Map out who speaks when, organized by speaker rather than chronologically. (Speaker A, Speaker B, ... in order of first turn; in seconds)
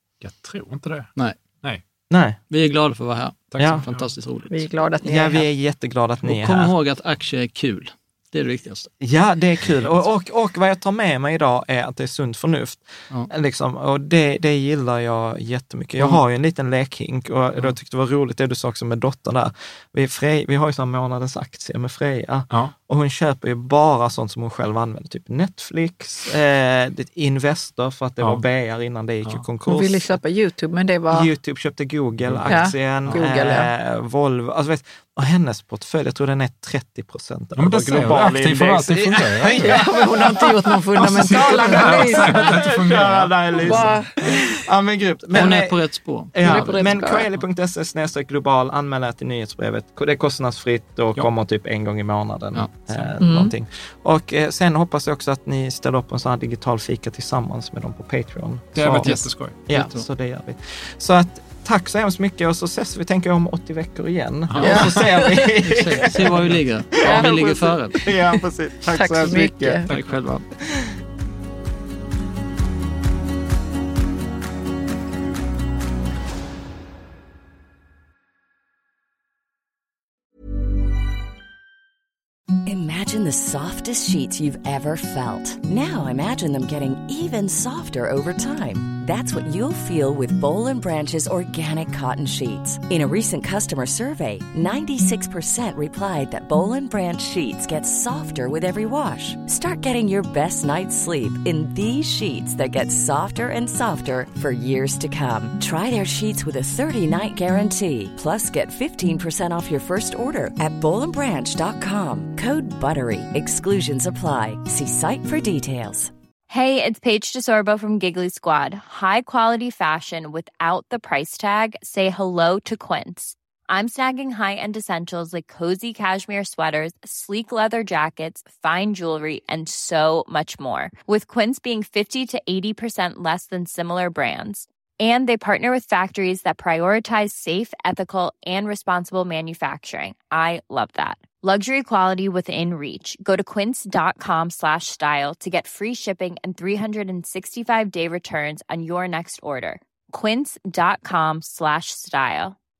Speaker A: 0.2-1.8, 3.5-4.1, 32.2-32.6, 37.6-39.8, 41.0-43.9, 58.8-59.6, 64.5-64.8, 69.9-70.1
Speaker B: 2.1-2.4, 3.6-3.9, 5.0-6.7, 9.0-30.2, 31.1-45.8, 46.3-69.9, 70.6-70.9
Speaker C: 2.5-4.6, 6.2-8.9, 45.3-47.1, 52.5-53.1, 58.8-60.0, 64.5-68.1, 69.9-70.5
Speaker D: 4.5-5.5, 29.6-31.3, 32.5-33.7, 39.5-42.5, 43.6-44.4, 46.4-47.3, 53.2-53.5, 64.7-65.5, 68.9-69.8
Speaker E: 82.7-116.1
Speaker F: 116.5-152.6